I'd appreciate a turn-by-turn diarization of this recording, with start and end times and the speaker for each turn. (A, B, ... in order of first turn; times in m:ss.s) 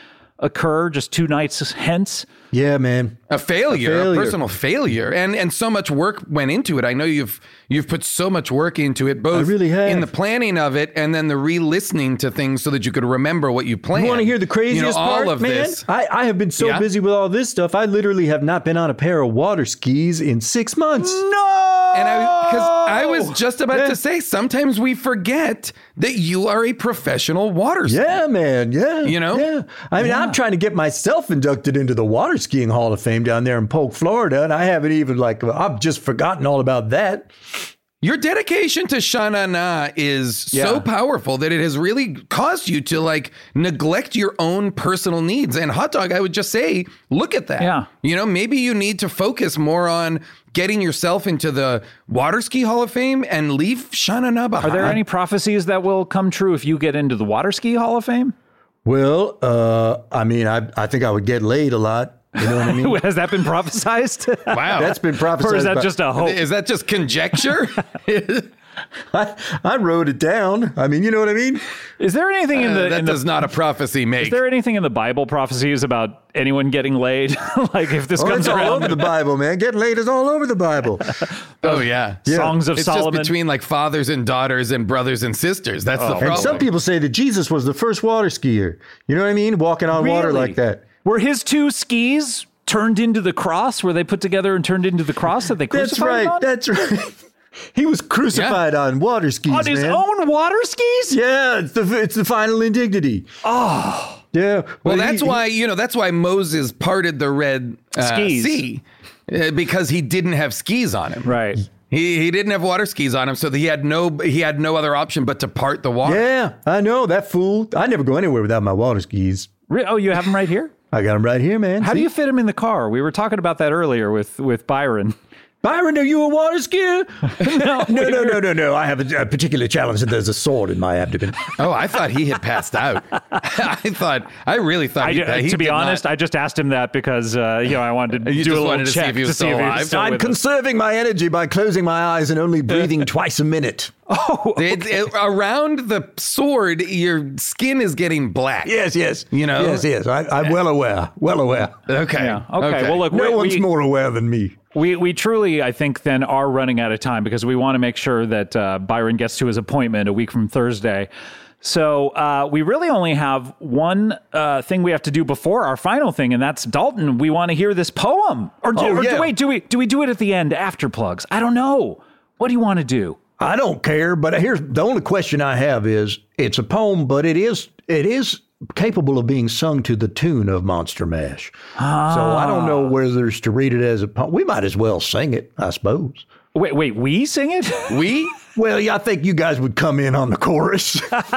0:00.4-0:02.3 A
0:02.5-0:03.2 B
0:03.3-0:15.9 C
0:03.7-0:04.4 B
0:09.3-0:10.1 B
0:13.9-0:24.0 B
0:16.6-0:16.9 C
0:21.9-0:28.2 C
0:27.9-0:37.3 B
0:29.0-0:29.5 C
0:30.0-0:30.4 A
0:38.0-0:55.0 C
0:40.5-0:40.9 A
0:47.6-0:47.9 A
0:54.6-0:58.3 A
0:58.8-1:03.0 B
1:02.4-1:06.4 A
1:04.5-1:05.0 C
1:04.7-1:06.0 B
1:06.1-1:08.5 C
1:09.1-1:11.6 B
1:12.0-1:13.4 A
1:12.5-1:14.4 C
1:14.2-1:19.1 A
1:18.2-1:22.6 B
1:21.6-1:26.7 C
1:22.3-1:23.3 A
1:26.0-1:26.6 A
1:26.2-1:30.8 B
1:29.9-1:36.5 A
1:35.7-1:37.2 B
1:37.7-1:40.0 B
1:38.3-1:38.6 C
1:39.5-1:41.2 A
1:41.1-1:43.3 B
1:43.4-1:44.2 A
1:44.3-1:45.4 B
1:44.8-1:51.3 C
1:48.0-1:48.6 A
1:51.2-1:51.6 A
1:51.9-1:56.2 C
1:56.0-1:59.5 B
1:59.7-2:00.7 A
2:00.9-2:02.1 B
2:01.8-2:05.2 A
2:05.6-2:11.5 B
2:07.4-2:08.4 A
2:11.6-2:16.1 C
2:15.0-2:20.4 A
2:18.2-2:20.0 C
2:19.8-2:23.9 B
2:24.1-2:25.1 A
2:24.6-2:28.7 C
2:28.6-2:31.8 B
2:29.3-2:29.9 C
2:31.9-2:33.1 C
2:32.2-2:33.7 A
2:33.1-2:34.6 B
2:34.7-2:41.1 A
2:41.6-2:53.2 A
2:48.8-2:49.3 B
2:53.4-3:01.6 B
3:01.8-3:03.0 A
3:02.1-3:06.2 B
3:06.5-3:08.0 A
3:07.9-3:08.3 C
3:08.6-3:11.2 B